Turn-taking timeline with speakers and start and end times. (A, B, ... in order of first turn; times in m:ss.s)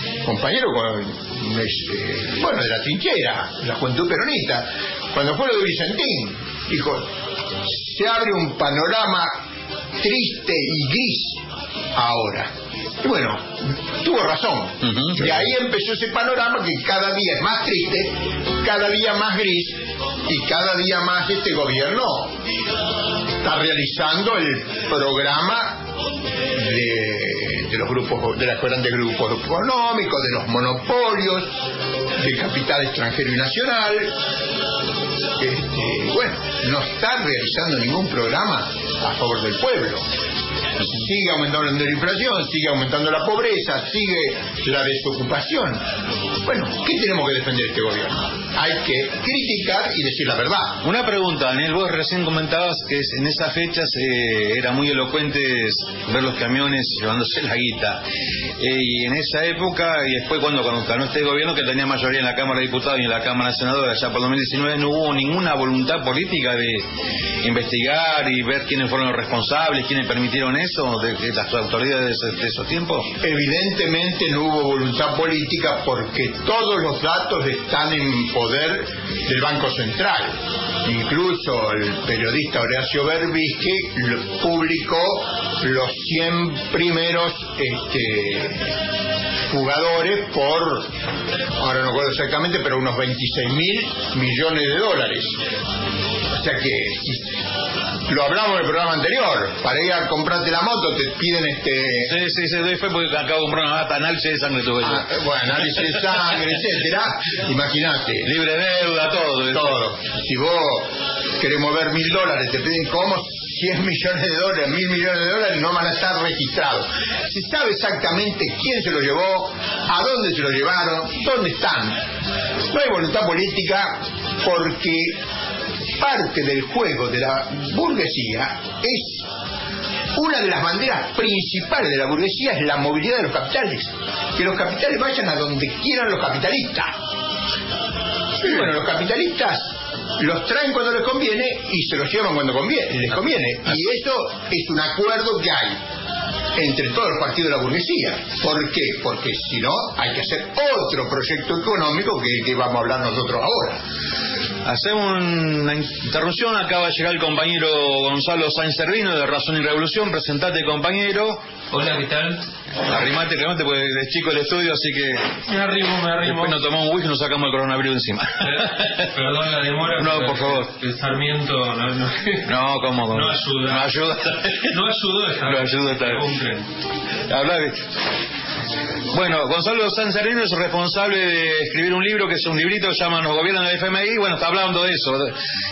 0:00.2-0:09.4 A
0:10.0-0:11.4 A
0:11.9-0:22.4 A
0:14.9-0:15.3 B
0:23.4-0:25.8 A
0:26.5-0:31.6 A
0:32.2-0:34.2 A
0:35.4-0:40.1 A
0:40.8-0:45.8 A
0:46.4-0:50.8 A
0:50.8-0:58.0 B
0:58.6-1:06.8 B
1:07.4-1:13.1 B
1:13.2-1:28.7 A
1:29.5-1:30.9 A
1:31.6-1:35.4 A
1:36.3-1:37.4 A
1:38.1-1:42.1 A
1:42.0-1:45.1 B
1:44.8-1:48.3 A
1:48.2-1:49.8 B
1:49.5-2:02.0 A
2:02.7-2:05.2 A
2:06.0-2:09.2 A
2:10.1-2:16.9 A
2:18.4-2:25.8 A
2:26.5-2:33.8 A
2:34.6-2:41.4 B
2:41.7-2:42.4 C
2:42.8-2:45.4 B
2:45.4-2:46.6 C
2:46.2-2:49.0 B
2:48.4-2:52.5 C
2:50.0-2:50.7 B
2:52.4-2:54.6 B
2:53.1-2:56.7 C
2:55.4-2:56.2 B
2:57.3-2:57.8 B
2:59.1-3:05.3 B